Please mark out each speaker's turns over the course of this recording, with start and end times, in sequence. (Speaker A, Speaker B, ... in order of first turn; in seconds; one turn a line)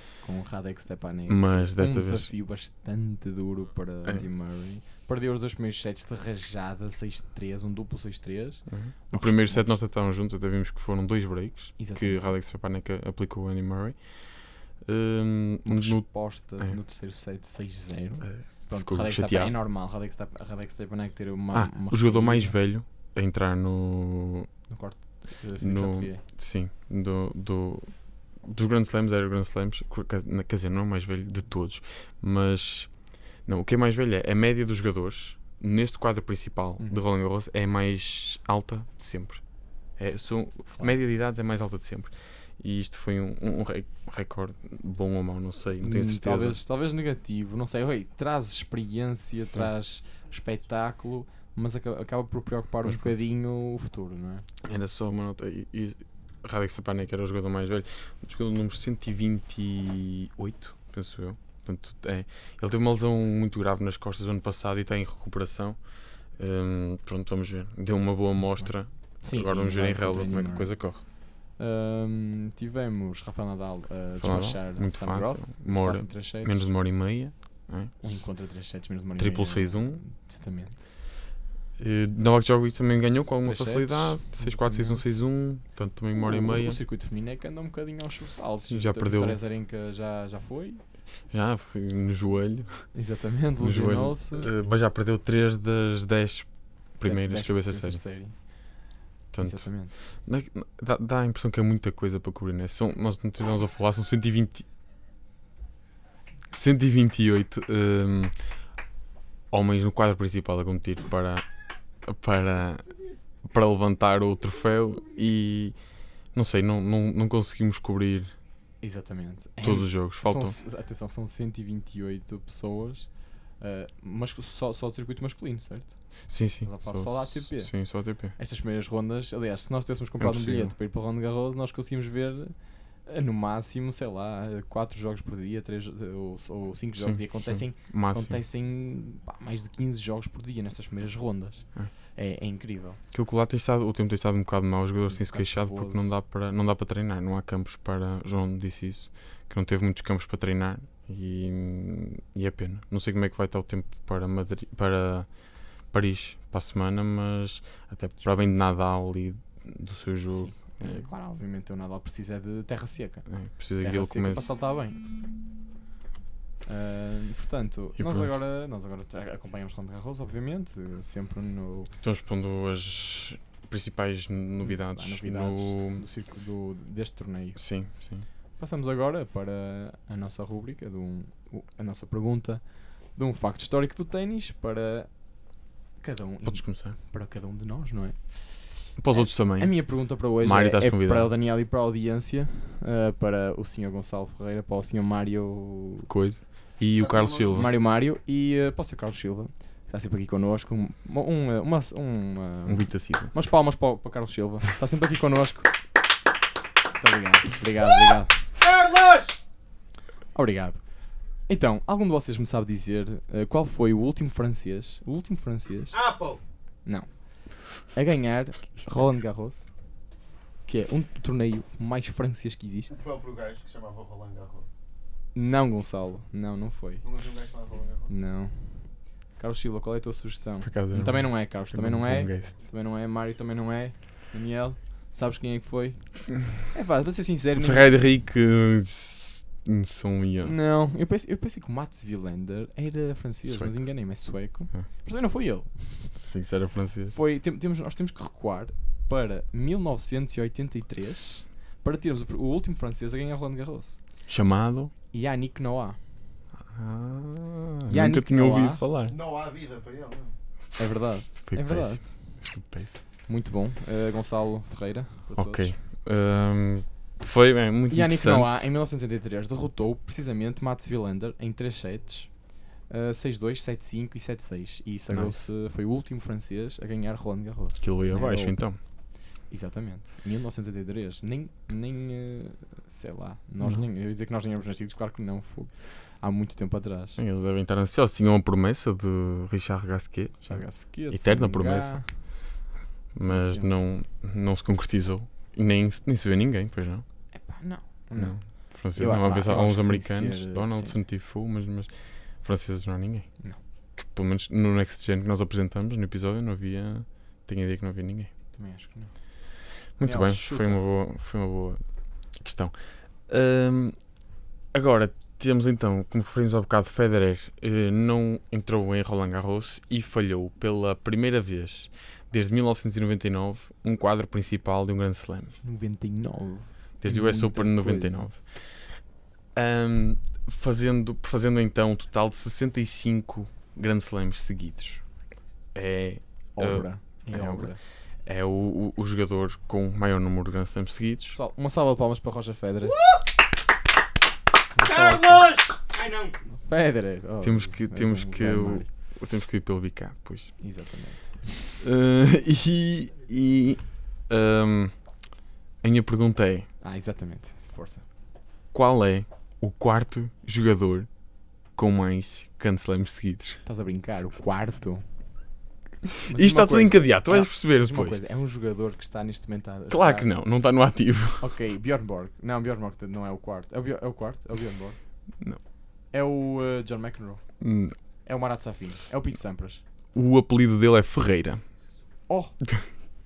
Speaker A: 0.2-9.8
Speaker B: 1.3-2.3
Speaker B: 8.7-16.8
Speaker A: 11.8-12.3
Speaker A: 15.7-22.6
Speaker B: 18.2-19.6
Speaker B: 21.5-24.5
Speaker A: 24.7-26.2
Speaker B: 25.6-46.6
Speaker A: 45.8-54.5
Speaker B: 49.4-49.7
Speaker B: 52.8-53.1
Speaker B: 54.6-71.0
Speaker A: 68.6-76.7
Speaker B: 74.2-78.2
Speaker A: 78.0-80.8
Speaker B: 79.2-80.0
Speaker B: 81.8-86.8
Speaker A: 83.4-85.2
Speaker A: 86.2-90.8
Speaker B: 88.7-89.4
Speaker B: 91.3-93.0
Speaker A: 92.9-94.5
Speaker B: 93.6-98.0
Speaker A: 97.0-100.0
Speaker B: 99.3-104.7
Speaker B: 106.5-108.6
Speaker B: 109.5-111.5
Speaker B: 112.0-118.4
Speaker A: 118.8-143.0
Speaker B: 119.6-120.6
Speaker B: 126.3-128.3
Speaker B: 130.2-130.7
Speaker B: 137.0-138.4
Speaker B: 143.1-161.1
Speaker A: 145.0-146.2
Speaker A: 160.3-165.1
Speaker B: 163.3-164.6
Speaker A: 166.7-171.9
Speaker B: 168.0-168.3
Speaker B: 172.0-176.0
Speaker A: 174.6-196.1
Speaker B: 177.6-178.3
Speaker B: 186.4-187.0
Speaker B: 189.0-191.3
Speaker B: 196.1-197.7
Speaker C: 197.0-197.8
Speaker A: 197.5-205.8
Speaker B: 202.7-203.3
Speaker A: 207.0-208.7
Speaker A: 210.3-219.7
Speaker A: 220.7-223.0
Speaker C: 222.9-224.7
Speaker A: 225.3-227.1
Speaker C: 227.0-228.1
Speaker A: 228.1-238.0
Speaker B: 230.6-232.5
Speaker B: 237.6-240.6
Speaker A: 240.4-246.2
Speaker B: 243.4-243.9
Speaker B: 246.2-247.2
Speaker A: 247.1-254.2
Speaker B: 254.3-254.9
Speaker A: 255.1-256.2
Speaker B: 256.7-259.1
Speaker A: 257.9-258.8
Speaker C: 259.1-260.4
Speaker A: 260.8-262.5
Speaker B: 261.4-263.0
Speaker A: 263.2-265.8
Speaker B: 265.4-268.7
Speaker A: 267.9-278.8
Speaker B: 275.1-275.4
Speaker B: 277.8-278.8
Speaker A: 279.3-287.2
Speaker B: 283.6-283.9
Speaker B: 287.2-292.2
Speaker A: 290.4-292.6
Speaker B: 293.1-297.1
Speaker A: 293.2-293.7
Speaker A: 297.3-301.0
Speaker B: 298.2-308.3
Speaker A: 308.5-310.8
Speaker B: 310.0-314.2
Speaker B: 314.7-325.6
Speaker A: 325.6-328.3
Speaker B: 327.0-335.1
Speaker B: 335.7-341.4
Speaker A: 336.6-337.8
Speaker A: 341.4-343.1
Speaker A: 344.7-348.9
Speaker B: 347.4-350.6
Speaker A: 350.6-351.7
Speaker B: 351.8-355.3
Speaker B: 355.8-356.7
Speaker A: 356.8-358.1
Speaker B: 358.7-363.6
Speaker A: 363.6-365.1
Speaker A: 366.3-370.3
Speaker B: 366.3-368.2
Speaker B: 369.9-371.5
Speaker A: 371.4-375.0
Speaker A: 376.1-377.6
Speaker B: 377.6-378.0
Speaker A: 378.2-379.8
Speaker B: 380.1-381.6
Speaker A: 382.3-382.6